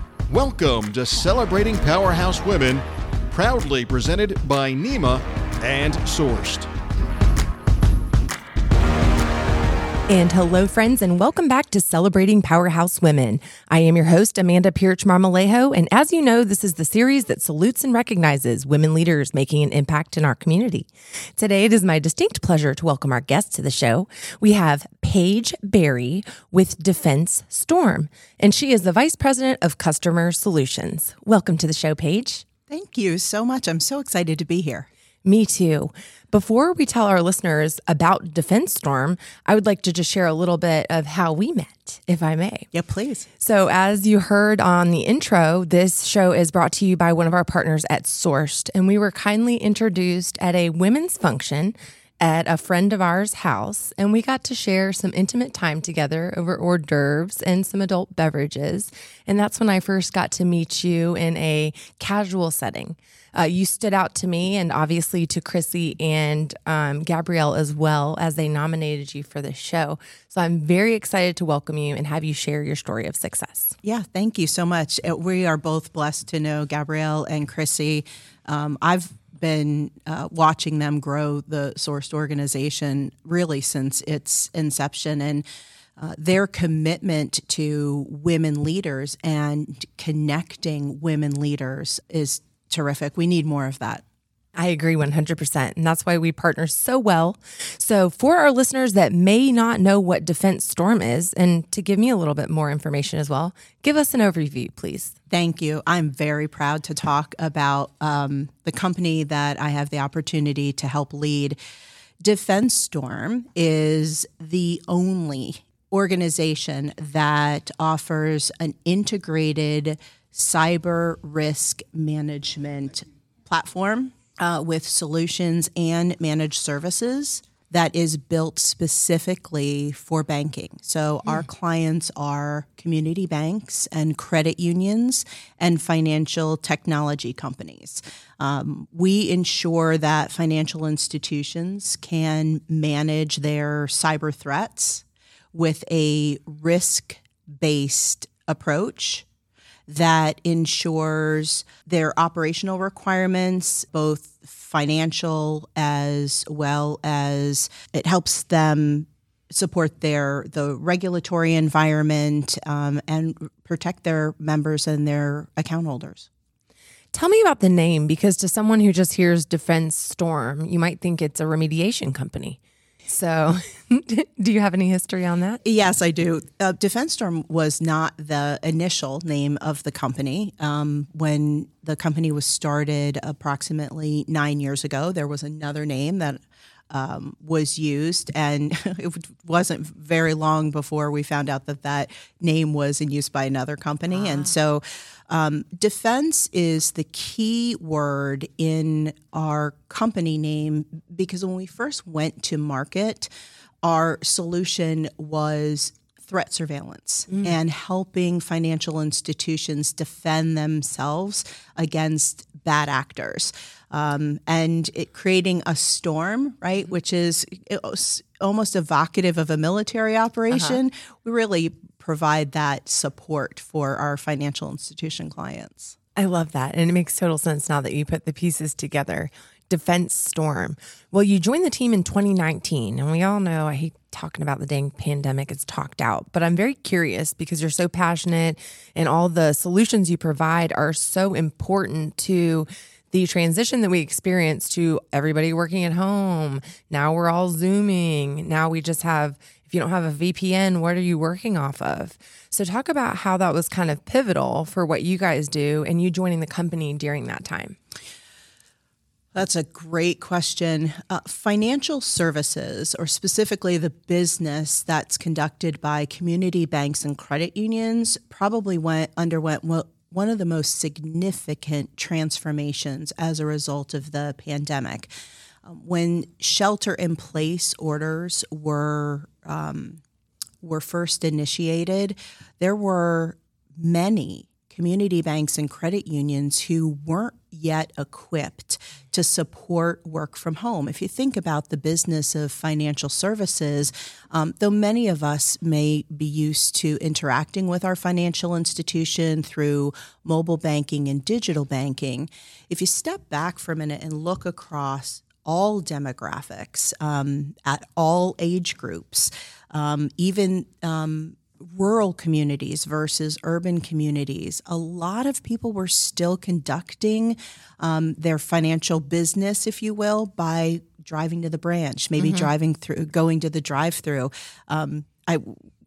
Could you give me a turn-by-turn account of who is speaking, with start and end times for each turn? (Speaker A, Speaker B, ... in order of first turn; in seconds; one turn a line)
Speaker A: 0.3-6.7
Speaker B: 10.1-32.4
Speaker C: 32.7-34.9
Speaker B: 35.2-42.7
Speaker C: 42.7-43.2
Speaker B: 43.4-73.8
Speaker C: 73.8-85.4
Speaker C: 86.0-94.0
Speaker B: 94.5-105.1
Speaker C: 105.3-111.6
Speaker C: 112.2-149.2
Speaker C: 149.9-166.3
Speaker B: 167.1-175.6
Speaker C: 175.6-203.3
Speaker C: 203.8-225.9
Speaker B: 220.5-220.8
Speaker B: 226.2-257.8
Speaker C: 259.3-275.1
Speaker C: 275.6-280.0
Speaker C: 280.6-325.6
Speaker B: 322.2-322.5